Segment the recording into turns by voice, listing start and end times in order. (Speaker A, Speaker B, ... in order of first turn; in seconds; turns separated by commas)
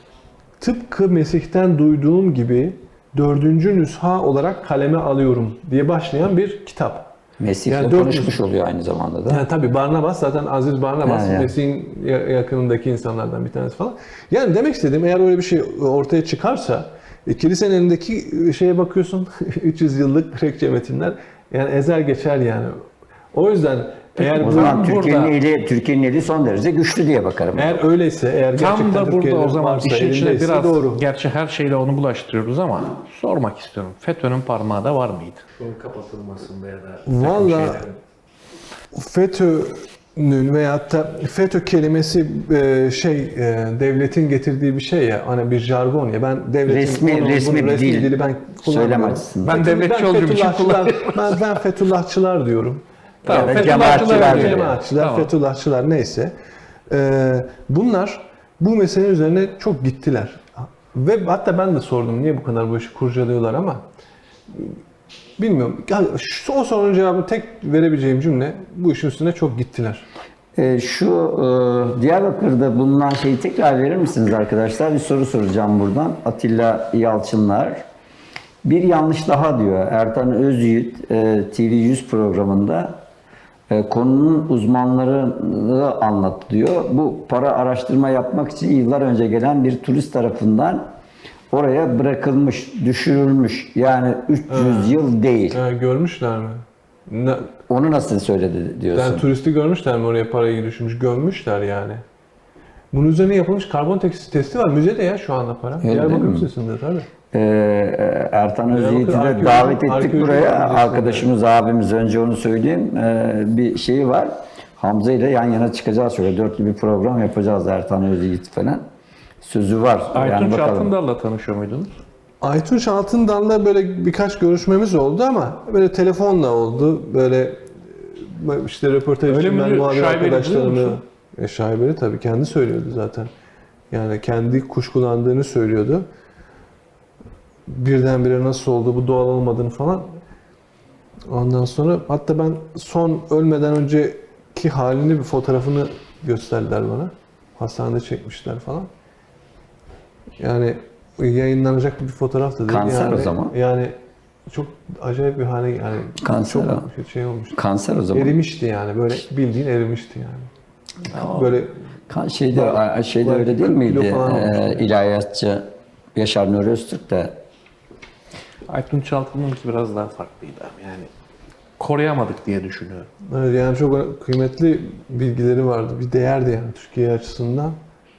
Speaker A: 0.6-7.1, Speaker B: 7.4-9.4, Speaker A: 7.7-8.4, Speaker A: 9.3-22.8, Speaker B: 11.0-11.5, Speaker A: 23.3-24.9, Speaker C: 24.2-25.3, Speaker B: 24.4-27.8, Speaker A: 27.6-31.0, Speaker C: 28.6-38.0, Speaker A: 37.1-37.9, Speaker A: 38.9-56.3, Speaker B: 46.7-48.1, Speaker B: 48.6-49.6, Speaker C: 49.4-51.4, Speaker C: 53.3-55.3, Speaker B: 53.3-54.8, Speaker A: 56.9-63.8, Speaker A: 65.4-70.1, Speaker B: 70.6-77.8, Speaker B: 78.6-83.0, Speaker B: 83.7-90.9, Speaker B: 91.5-95.6, Speaker A: 94.5-95.0, Speaker A: 95.5-97.5, Speaker B: 97.7-99.2, Speaker A: 98.9-102.0, Speaker A: 102.9-107.1, Speaker B: 105.8-106.5, Speaker B: 107.3-118.8, Speaker A: 108.7-111.3, Speaker B: 119.4-120.9, Speaker C: 120.1-121.9, Speaker A: 122.4-133.3, Speaker C: 129.3-131.0, Speaker A: 133.9-136.1, Speaker A: 137.7-140.1, Speaker A: 141.3-148.9, Speaker A: 150.4-153.9, Speaker B: 152.7-153.5, Speaker A: 154.5-157.6, Speaker B: 156.2-156.9, Speaker B: 157.5-158.3, Speaker A: 158.1-160.5, Speaker A: 161.1-161.8, Speaker C: 161.1-161.5, Speaker B: 162.1-167.4, Speaker A: 162.5-164.9, Speaker C: 168.7-171.1, Speaker C: 171.8-173.1, Speaker A: 173.3-177.8